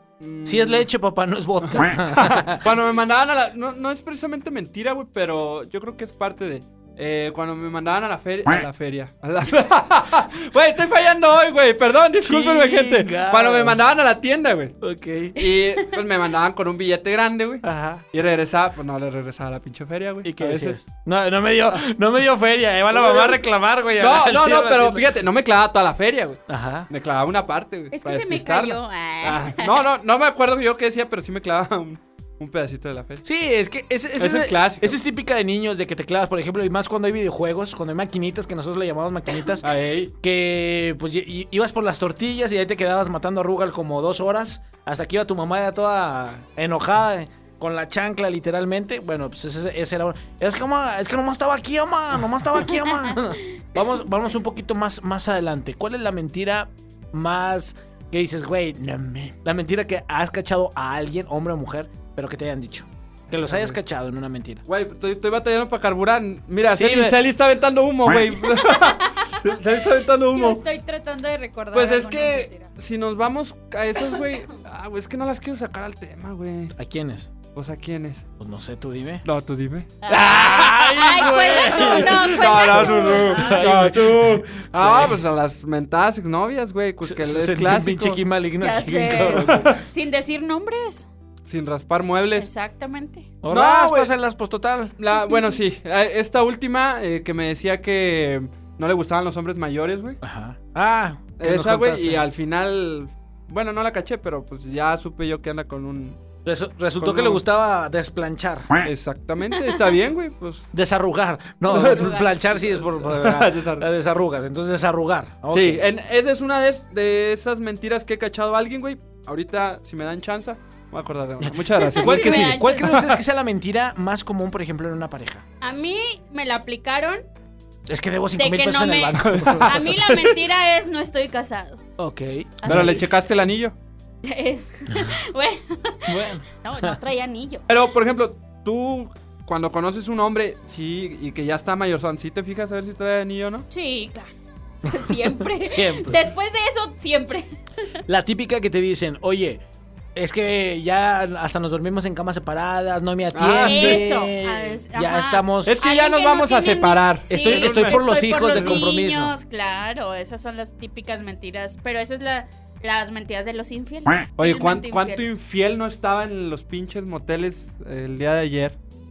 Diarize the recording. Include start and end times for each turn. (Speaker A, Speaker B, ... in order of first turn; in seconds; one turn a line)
Speaker A: 0.2-0.9
Speaker B: 0.4-2.7
Speaker A: 1.6-14.8
Speaker B: 12.2-13.8
Speaker B: 14.8-15.4
Speaker A: 15.3-20.8
Speaker B: 17.6-18.0
Speaker B: 20.2-25.1
Speaker A: 22.9-23.4
Speaker A: 24.0-33.2
Speaker B: 26.5-26.9
Speaker C: 27.9-29.9
Speaker B: 33.2-64.6
Speaker A: 34.2-35.0
Speaker A: 39.6-40.1
Speaker C: 53.1-53.6
Speaker A: 63.4-63.8
Speaker A: 64.7-70.6
Speaker B: 66.7-67.2
Speaker C: 68.4-69.5
Speaker C: 70.3-72.7
Speaker A: 71.7-76.7
Speaker C: 74.0-74.4
Speaker B: 76.7-77.3
Speaker A: 77.5-78.2
Speaker B: 78.4-79.2
Speaker A: 79.2-88.2
Speaker C: 80.0-83.6
Speaker B: 80.1-85.2
Speaker B: 87.0-89.8
Speaker C: 88.6-91.1
Speaker A: 89.3-89.8
Speaker A: 91.5-92.5
Speaker C: 92.3-93.3
Speaker B: 93.4-94.9
Speaker A: 93.5-94.1
Speaker A: 95.0-100.2
Speaker C: 95.1-95.5
Speaker B: 100.2-102.2
Speaker A: 101.4-106.2
Speaker B: 106.4-108.7
Speaker A: 107.0-107.4
Speaker A: 108.8-110.7
Speaker B: 110.7-115.8
Speaker A: 111.7-113.9
Speaker C: 111.8-112.3
Speaker A: 115.5-123.2
Speaker B: 121.4-125.4
Speaker C: 121.8-122.9
Speaker C: 125.6-127.2
Speaker B: 127.9-129.8
Speaker C: 128.3-131.8
Speaker A: 129.2-130.3
Speaker B: 132.0-133.0
Speaker C: 132.6-133.0
Speaker A: 132.7-133.7
Speaker C: 134.2-137.7
Speaker B: 136.1-136.9
Speaker A: 137.7-143.7
Speaker C: 143.7-144.3
Speaker C: 144.8-147.5
Speaker B: 144.9-146.2
Speaker B: 148.1-149.6
Speaker B: 150.1-155.8
Speaker A: 153.3-154.0
Speaker C: 153.6-165.3
Speaker A: 155.6-158.8
Speaker B: 157.3-159.3
Speaker A: 164.4-168.8